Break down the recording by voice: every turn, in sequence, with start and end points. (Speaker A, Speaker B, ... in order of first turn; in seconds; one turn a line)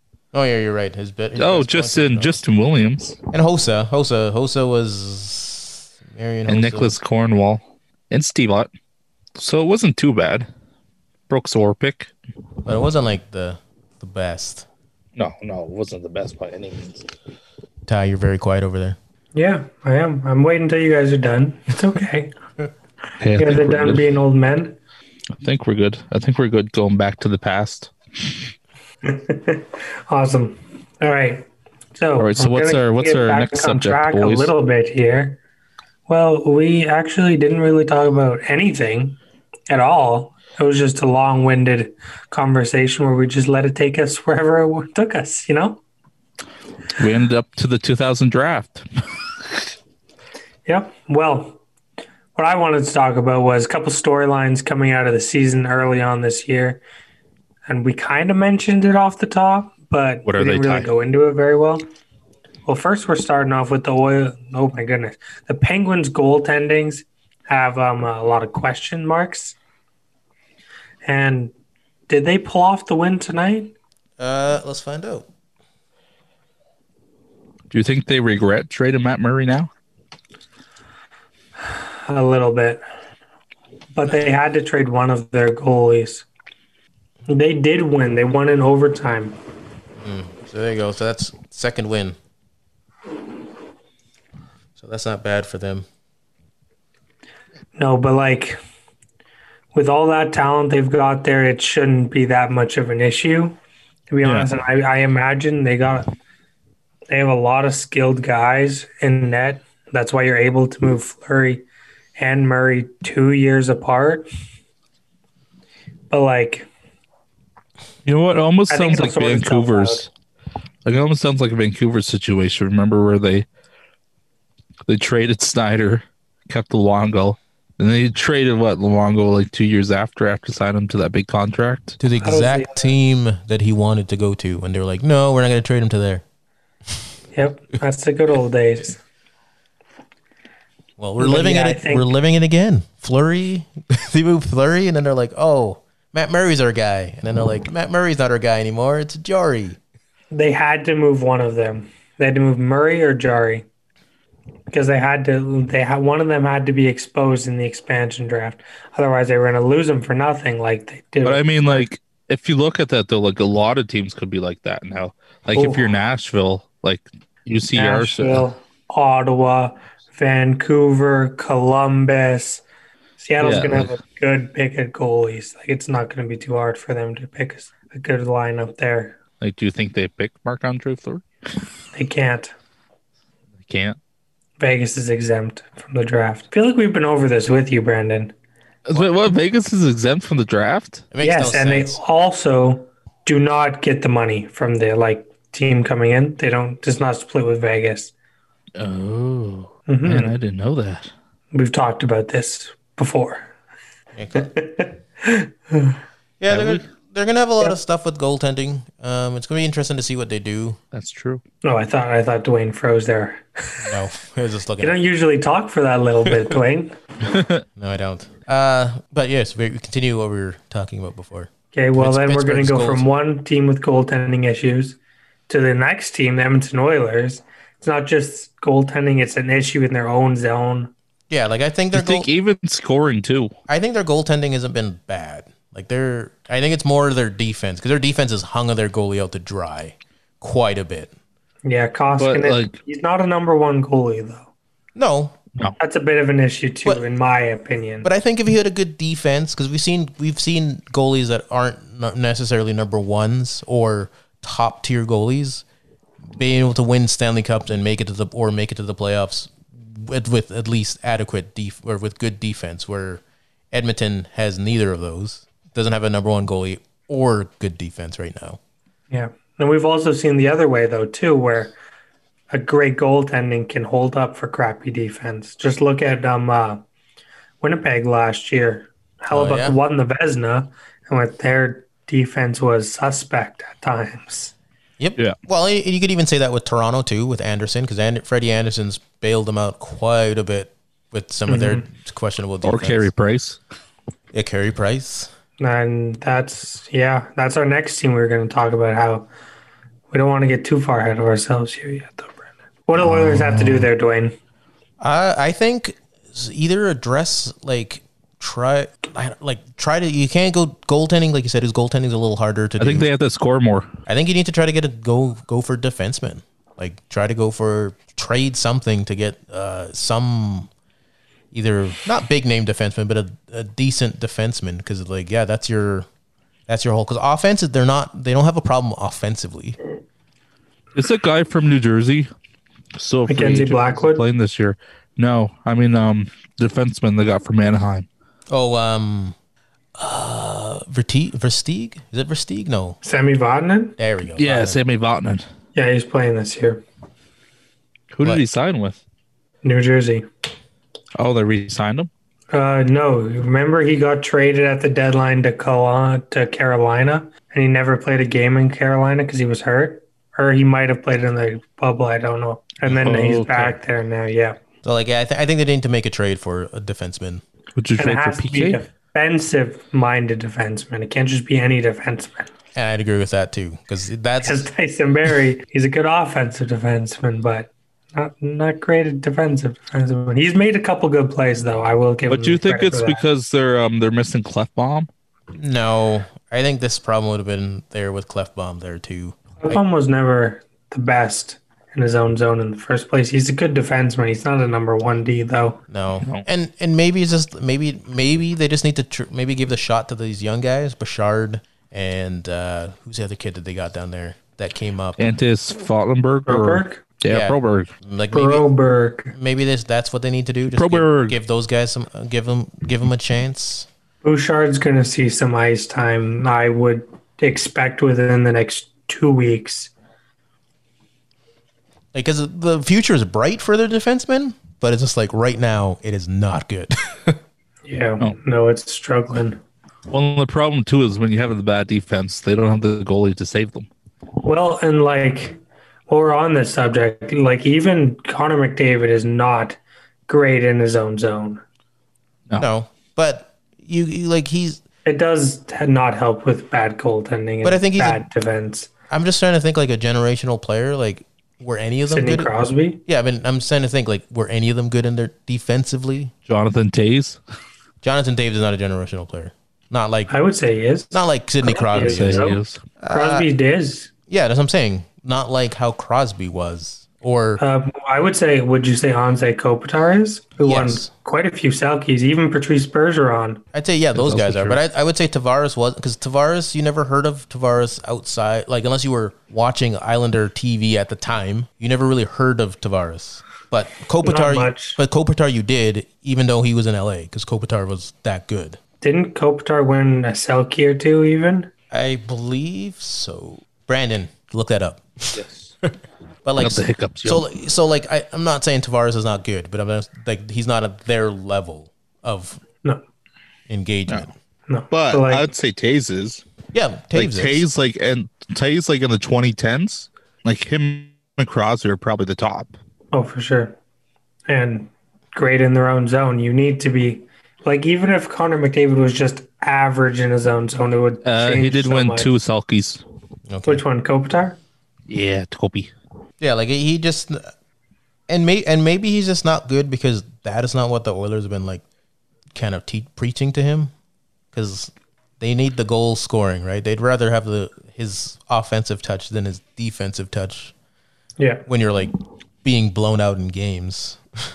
Speaker A: 0.3-2.4
Speaker B: 1.4-3.2
Speaker A: 3.3-6.9
Speaker B: 6.5-8.7
Speaker B: 9.4-10.5
Speaker B: 11.3-12.1
Speaker A: 12.6-14.7
Speaker B: 15.2-17.1
Speaker A: 17.9-19.0
Speaker C: 19.4-22.4
Speaker B: 23.2-24.1
Speaker C: 23.4-24.8
Speaker B: 25.4-28.3
Speaker C: 29.0-35.4
Speaker B: 32.2-34.5
Speaker C: 36.1-39.2
Speaker C: 39.7-45.8
Speaker B: 46.9-48.9
Speaker C: 50.6-51.6
Speaker C: 52.4-56.8
Speaker C: 57.6-61.9
Speaker B: 60.2-60.9
Speaker C: 62.6-69.6
Speaker C: 71.0-71.5
Speaker C: 72.1-73.7
Speaker A: 74.2-75.3
Speaker B: 77.7-79.7
Speaker C: 82.0-82.8
Speaker C: 83.9-86.2
Speaker C: 87.3-89.4
Speaker A: 90.0-92.2
Speaker A: 94.8-95.8
Speaker C: 97.8-98.6
Speaker C: 99.7-103.6
Speaker C: 104.1-106.1
Speaker B: 104.2-104.5
Speaker C: 107.1-111.6
Speaker C: 112.2-114.3
Speaker C: 116.1-116.7
Speaker B: 118.0-120.1
Speaker C: 118.7-120.0
Speaker B: 120.8-123.5
Speaker B: 124.9-132.0
Speaker A: 132.0-136.2
Speaker C: 132.2-132.9
Speaker C: 137.3-139.0
Speaker A: 141.0-149.8
Speaker C: 141.2-142.1
Speaker C: 150.3-153.7
Speaker C: 154.7-161.8
Speaker B: 161.2-168.4
Speaker C: 165.5-165.9
Speaker C: 167.7-172.6
Speaker C: 173.2-179.2
Speaker B: 173.4-173.9
Speaker B: 179.4-181.2
Speaker C: 181.9-182.5
Speaker B: 183.6-184.0
Speaker C: 184.6-188.3
Speaker B: 188.9-191.1
Speaker A: 191.1-192.0
Speaker C: 191.2-198.1
Speaker B: 198.8-201.1
Speaker C: 199.9-200.3
Speaker C: 201.5-203.5
Speaker A: 204.1-204.5
Speaker C: 204.4-206.0
Speaker A: 206.4-210.8
Speaker B: 206.5-206.8
Speaker B: 210.9-211.4
Speaker C: 211.6-213.9
Speaker A: 213.8-215.0
Speaker C: 214.8-216.9
Speaker B: 217.3-217.6
Speaker A: 217.8-223.0
Speaker C: 221.7-225.0
Speaker C: 225.5-230.9
Speaker A: 231.3-232.3
Speaker B: 231.9-233.5
Speaker A: 233.7-241.1
Speaker C: 241.6-244.5
Speaker B: 242.2-242.8
Speaker A: 244.9-245.4
Speaker C: 245.8-248.1
Speaker A: 248.0-255.6
Speaker A: 256.4-268.6
Speaker C: 269.1-271.7
Speaker C: 272.5-276.8
Speaker C: 277.6-284.5
Speaker A: 279.3-279.8
Speaker A: 285.0-293.1
Speaker C: 291.5-291.9
Speaker B: 292.6-293.6
Speaker A: 294.3-295.3
Speaker C: 295.6-299.3
Speaker C: 300.1-304.4
Speaker A: 305.0-313.1
Speaker B: 312.8-313.9
Speaker A: 314.1-320.7
Speaker A: 321.5-326.1
Speaker A: 326.7-329.8
Speaker B: 330.9-332.3
Speaker B: 332.9-338.1
Speaker C: 333.3-334.2
Speaker A: 338.5-339.4
Speaker A: 340.0-343.0
Speaker C: 343.0-344.0
Speaker A: 344.0-344.8
Speaker B: 344.4-345.4
Speaker C: 345.7-346.8
Speaker B: 348.1-349.0
Speaker C: 349.6-350.2
Speaker B: 351.1-352.1
Speaker C: 352.5-364.6
Speaker B: 362.9-363.7
Speaker A: 364.8-367.4
Speaker B: 367.8-368.8
Speaker C: 368.0-372.5
Speaker A: 372.7-374.7
Speaker C: 374.4-383.2
Speaker B: 382.3-385.1
Speaker A: 385.5-389.8
Speaker C: 389.6-395.8
Speaker A: 395.9-405.2
Speaker B: 405.2-407.9
Speaker C: 406.5-407.0
Speaker A: 407.3-408.7
Speaker C: 408.3-409.3
Speaker A: 409.3-413.9
Speaker B: 410.7-411.4
Speaker C: 414.2-419.9
Speaker A: 422.1-427.4
Speaker C: 427.9-429.6
Speaker B: 430.1-433.9
Speaker C: 434.4-441.6
Speaker A: 442.6-444.8
Speaker C: 445.0-448.9
Speaker A: 447.6-448.2
Speaker A: 449.1-452.5
Speaker C: 452.1-453.0
Speaker A: 453.1-456.3
Speaker B: 456.5-457.4
Speaker A: 458.0-460.3
Speaker C: 460.3-462.6
Speaker A: 461.1-462.5
Speaker B: 461.9-462.8
Speaker A: 463.0-463.5
Speaker C: 463.1-464.1
Speaker A: 464.3-467.6
Speaker C: 467.6-473.6
Speaker A: 470.6-471.1
Speaker A: 473.7-488.8
Speaker B: 474.1-474.8
Speaker C: 484.2-485.0
Speaker C: 489.0-491.7
Speaker A: 491.9-502.6
Speaker B: 495.4-495.7
Speaker B: 496.6-497.4
Speaker A: 503.7-504.3
Speaker C: 504.7-505.5
Speaker B: 504.9-506.4
Speaker A: 506.7-507.6
Speaker B: 507.1-512.7
Speaker C: 513.1-513.8
Speaker C: 514.5-522.3
Speaker B: 521.2-523.0
Speaker A: 523.5-523.8
Speaker C: 523.6-524.6
Speaker B: 525.1-525.9
Speaker A: 526.4-527.5
Speaker A: 528.3-531.8
Speaker A: 532.5-533.9
Speaker A: 534.5-540.7
Speaker C: 541.4-541.6
Speaker A: 541.7-542.1
Speaker A: 542.6-544.2